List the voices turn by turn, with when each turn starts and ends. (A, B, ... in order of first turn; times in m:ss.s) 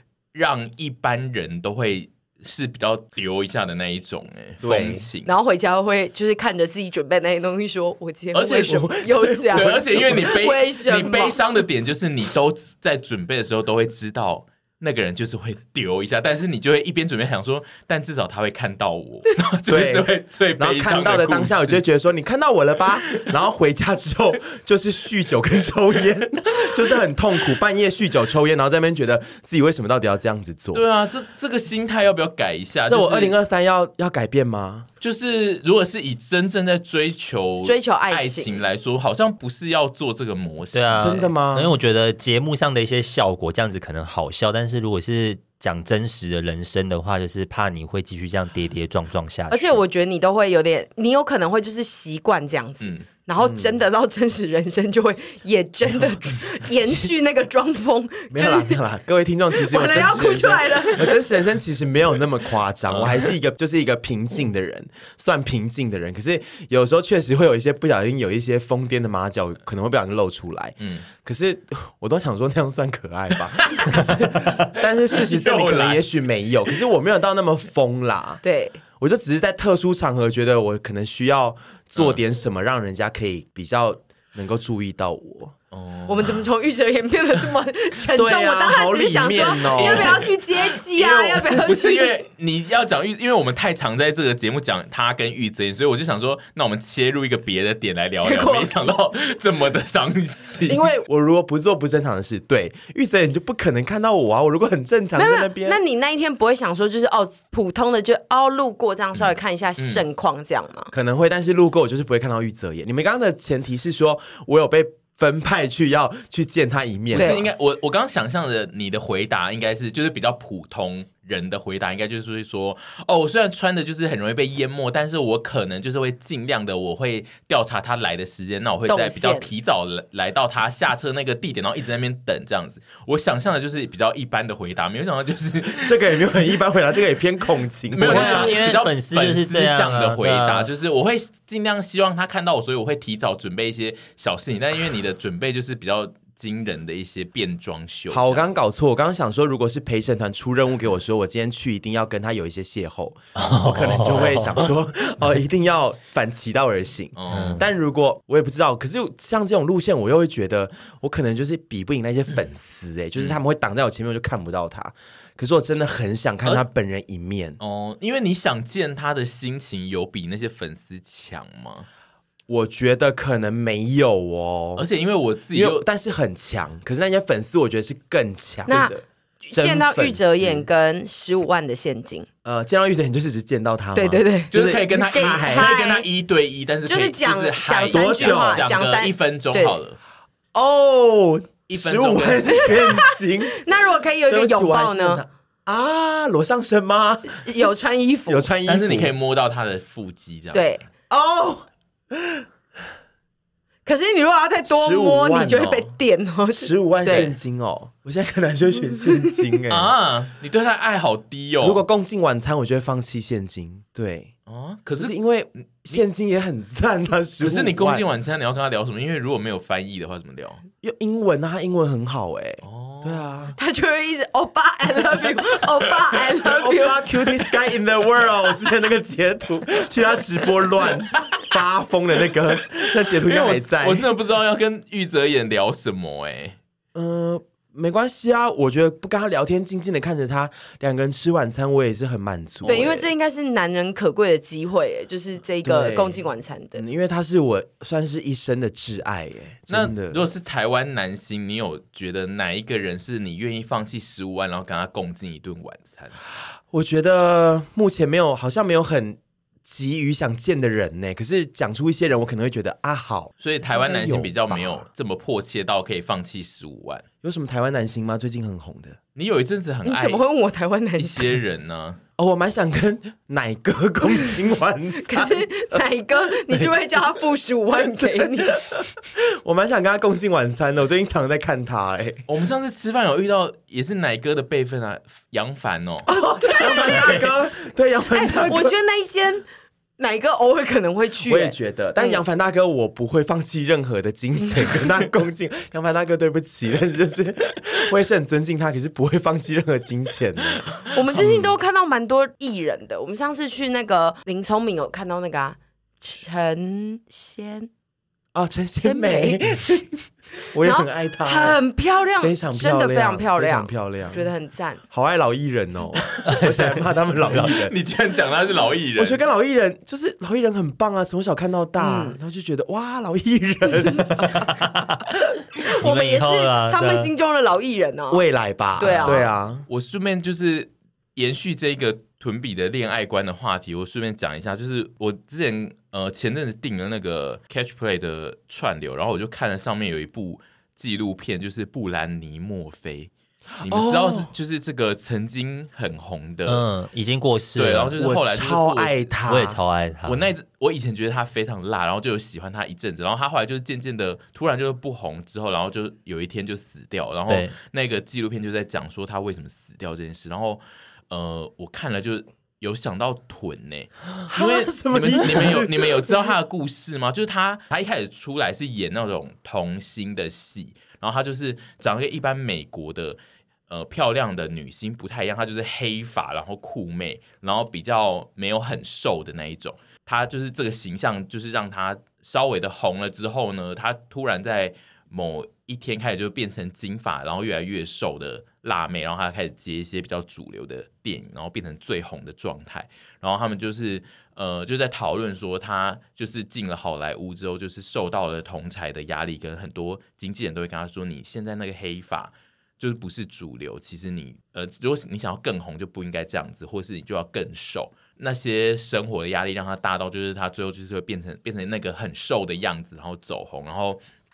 0:00.3-0:05.3 A
0:04.6-0:05.1 B
0:05.2-0:11.4 C
0:08.3-0:08.9 A
0:08.7-0:10.3 B
0:09.5-0:21.8 A
0:19.7-0:30.8 B
0:30.7-0:33.3 A
0:32.8-0:34.9 B
0:35.0-0:41.3 A
0:37.6-0:38.7 C
0:40.7-0:49.7 D
0:41.0-0:41.7 B
0:49.5-0:58.8 C
0:53.4-0:53.8 B
0:58.3-1:18.4 B
0:59.5-1:01.2 C
1:02.9-1:03.3 A
1:10.8-1:11.0 A
1:13.6-1:16.0 A
1:18.4-1:18.8 C
1:19.0-1:25.5 B
1:25.7-1:26.4 A
1:26.1-1:32.2 C
1:28.1-1:30.2 B
1:29.6-1:40.8 A
1:38.2-1:38.8 C
1:40.7-1:45.8 B
1:45.1-1:50.9 C
1:49.1-1:50.0 A
1:50.9-1:57.4 B
1:57.1-2:16.4 A
1:57.1-1:57.4 C
2:08.9-2:09.5 C
2:15.8-2:18.7 B
2:17.9-2:28.5 A
2:18.0-2:20.7 D
2:28.1-2:47.6 B
2:33.4-2:34.7 D
2:37.2-2:37.6 A
2:37.3-2:37.6 D
2:47.6-2:51.9 A
2:52.5-2:54.9 B
2:54.8-2:55.8 A
2:55.5-3:00.6 B
2:58.7-3:02.3 C
3:02.4-3:05.7 B
3:03.9-3:06.0 C
3:04.5-3:10.0 A
3:06.8-3:09.8 C
3:07.8-3:08.7 B
3:10.5-3:13.6 B
3:11.7-3:12.8 A
3:12.5-3:15.2 C
3:14.3-3:17.7 B
3:17.3-3:18.5 C
3:18.3-3:19.1 B
3:18.6-3:20.6 A
3:20.5-3:20.8 C
3:21.1-3:22.4 B
3:23.8-3:27.3 C
3:24.7-3:25.9 B
3:26.5-3:29.9 B
3:27.1-3:27.3 A
3:29.7-3:31.8 A
3:31.6-3:34.3 B
3:34.5-3:35.2 A
3:35.0-3:38.0 B
3:37.4-3:40.6 A
3:40.8-3:43.5 B
3:42.6-3:43.3 A
3:43.6-3:47.3 C
3:46.3-3:54.1 B
3:53.2-3:56.6 A
3:56.9-4:03.1 B
4:02.6-4:06.8 C
4:05.6-4:06.2 B
4:06.7-4:10.2 B
4:09.7-4:16.2 A
4:16.7-4:24.8 B
4:23.4-4:27.0 A
4:27.2-4:29.0 B
4:29.2-4:30.2 A
4:29.8-4:31.3 C
4:31.0-4:32.0 A
4:32.2-4:35.8 B
4:35.0-4:38.6 C
4:36.3-4:36.7 B
4:37.9-4:42.2 B
4:42.3-4:46.1 A
4:46.1-4:47.3 C
4:46.1-4:48.8 B
4:48.1-4:49.4 C
4:50.0-4:52.2 C
4:51.2-5:01.4 B
5:00.9-5:07.7 C
5:08.3-5:11.6 B
5:08.8-5:09.4 C
5:10.6-5:14.8 C
5:12.2-5:14.3 B
5:14.9-5:17.7 B
5:17.3-5:19.2 A
5:19.0-5:24.7 B
5:21.8-5:22.2 C
5:24.1-5:25.0 D
5:25.6-5:28.2 C
5:25.7-5:27.1 D
5:28.1-5:29.6 B
5:28.8-5:29.2 C
5:28.8-5:29.1 D
5:29.7-5:43.1 A
5:43.6-5:44.3 B
5:43.6-5:46.6 A
5:46.5-5:47.9 D
5:47.6-5:49.1 A
5:48.0-5:49.6 B
5:49.3-5:50.3 D
5:50.0-6:54.0 A
5:57.3-5:57.5 D
6:04.2-6:06.1 B